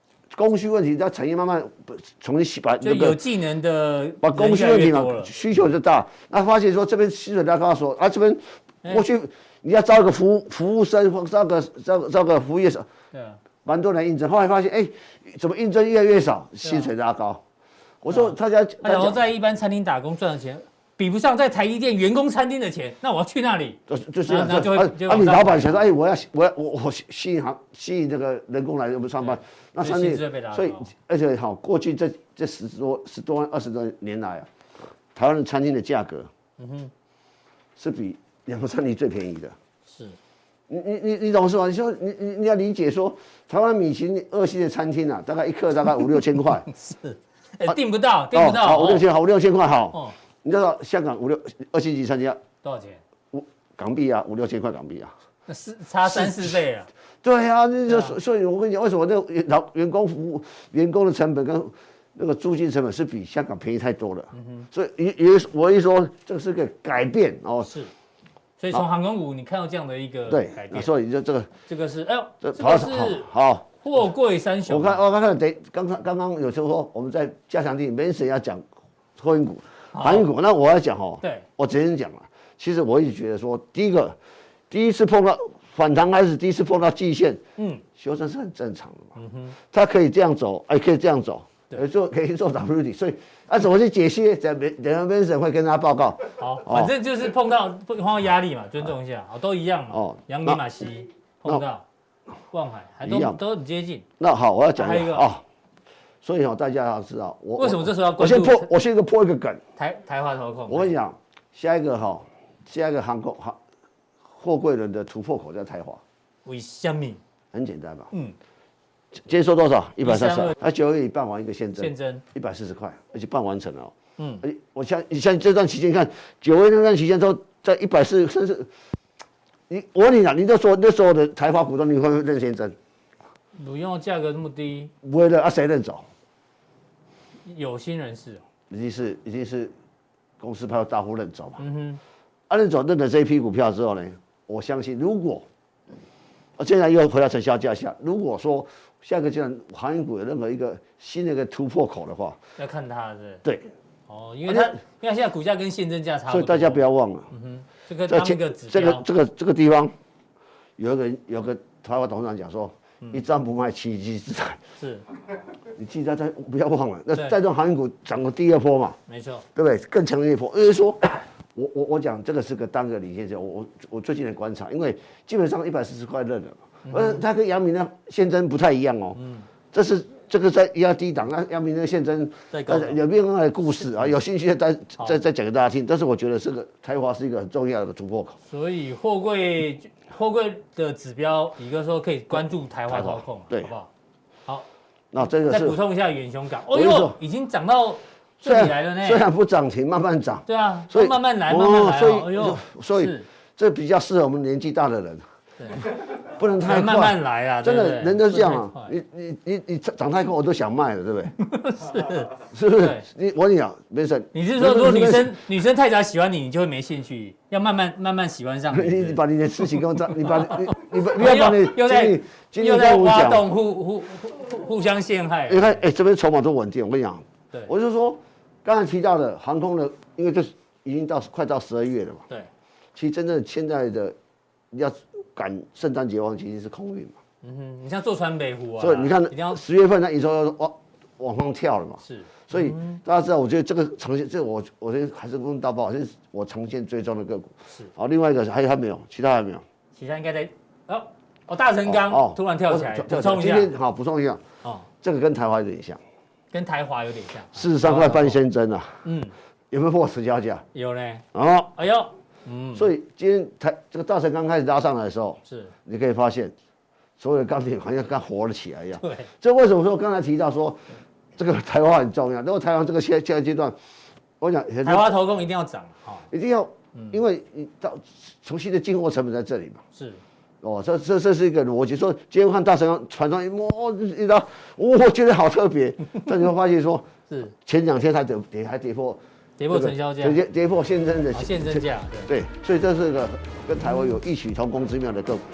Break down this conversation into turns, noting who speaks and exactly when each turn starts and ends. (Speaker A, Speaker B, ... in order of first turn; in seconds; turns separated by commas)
Speaker A: 0.3-3.2, Speaker B: 2.8-5.3, Speaker A: 4.2-12.8, Speaker B: 13.1-13.4, Speaker A: 13.6-17.4, Speaker B: 16.6-16.9, Speaker A: 18.0-19.2, Speaker B: 18.1-25.9, Speaker A: 23.9-34.5, Speaker B: 29.2-30.9, Speaker A: 35.1-36.3, Speaker B: 36.6-36.9, Speaker A: 37.8-39.5, Speaker B: 39.9-40.2, Speaker A: 40.7-46.7, Speaker B: 46.7-49.0, Speaker A: 48.3-52.4, Speaker B: 52.6-53.0, Speaker A: 53.3-55.1, Speaker B: 55.5-56.9, Speaker A: 56.0-56.6, Speaker A: 57.2-67.7, Speaker B: 57.9-58.2, Speaker B: 64.3-64.7, Speaker B: 67.6-67.9, Speaker B: 68.6-70.9, Speaker A: 70.3-71.5, Speaker B: 71.7-73.3, Speaker A: 72.4-73.7, Speaker B: 73.8-75.0, Speaker A: 74.7-78.6, Speaker A: 79.2-84.2, Speaker B: 79.9-80.3, Speaker B: 81.2-81.5, Speaker A: 84.7-87.4, Speaker B: 87.6-87.8, Speaker A: 87.9-96.9, Speaker B: 89.2-89.5, Speaker B: 96.4-101.8, Speaker A: 99.9-100.6, Speaker B: 102.5-104.0, Speaker A: 103.0-103.4, Speaker A: 104.2-105.4, Speaker B: 104.8-105.3, Speaker A: 106.2-109.6, Speaker B: 107.6-108.7, Speaker B: 109.8-110.9, Speaker A: 110.7-113.6, Speaker A: 114.3-116.0, Speaker B: 116.5-117.2, Speaker A: 117.5-118.1, Speaker A: 119.1-128.7, Speaker B: 120.0-120.5, Speaker B: 121.8-122.2, Speaker B: 124.2-124.4, Speaker A: 129.7-132.7, Speaker B: 133.5-134.9, Speaker A: 135.0-136.1, Speaker B: 137.4-138.4, Speaker A: 138.7-139.7, Speaker A: 140.4-141.6, Speaker B: 141.6-142.0, Speaker A: 142.5-145.4, Speaker A: 146.6-152.4, Speaker B: 152.6-153.4, Speaker B: 154.1-159.0, Speaker A: 154.4-154.7, Speaker A: 156.3-157.3, Speaker A: 158.1-159.9, Speaker A: 160.8-164.6, Speaker B: 164.8-165.0, Speaker A: 165.7-169.0, Speaker B: 169.1-169.4, Speaker A: 169.5-179.2, Speaker B: 176.8-177.2, Speaker B: 179.1-179.5, Speaker A: 179.7-188.4, Speaker B: 182.5-183.0, Speaker B: 188.5-193.9, Speaker A: 192.9-193.7, Speaker A: 195.1-195.8, Speaker B: 195.4-199.2, Speaker A: 196.7-197.2, Speaker A: 198.4-205.2, Speaker B: 200.5-203.2, Speaker B: 205.6-205.8, Speaker A: 206.3-211.3, Speaker B: 206.6-208.9, Speaker B: 211.4-213.1, Speaker A: 212.5-215.3, Speaker B: 214.3-225.8, Speaker A: 218.7-223.5, Speaker A: 225.5-232.2, Speaker A: 232.9-234.2, Speaker A: 234.7-237.2, Speaker B: 237.4-239.6, Speaker A: 238.8-249.6, Speaker B: 242.0-243.0, Speaker B: 249.9-253.7, Speaker A: 251.8-254.4, Speaker A: 255.0-256.0, Speaker B: 256.5-258.4, Speaker A: 257.5-259.0, Speaker B: 259.0-259.3, Speaker A: 259.7-260.6, Speaker B: 260.7-261.2, Speaker A: 261.3-261.7, Speaker B: 261.8-262.9, Speaker A: 262.7-266.5, Speaker B: 265.4-265.7, Speaker A: 267.2-273.8, Speaker B: 269.0-269.3, Speaker A: 274.4-275.1, Speaker B: 274.8-276.2, Speaker A: 276.3-279.8, Speaker B: 276.9-277.2, Speaker B: 279.9-280.2, Speaker A: 280.6-289.2, Speaker B: 289.6-290.4, Speaker A: 289.7-295.4, Speaker B: 291.3-292.3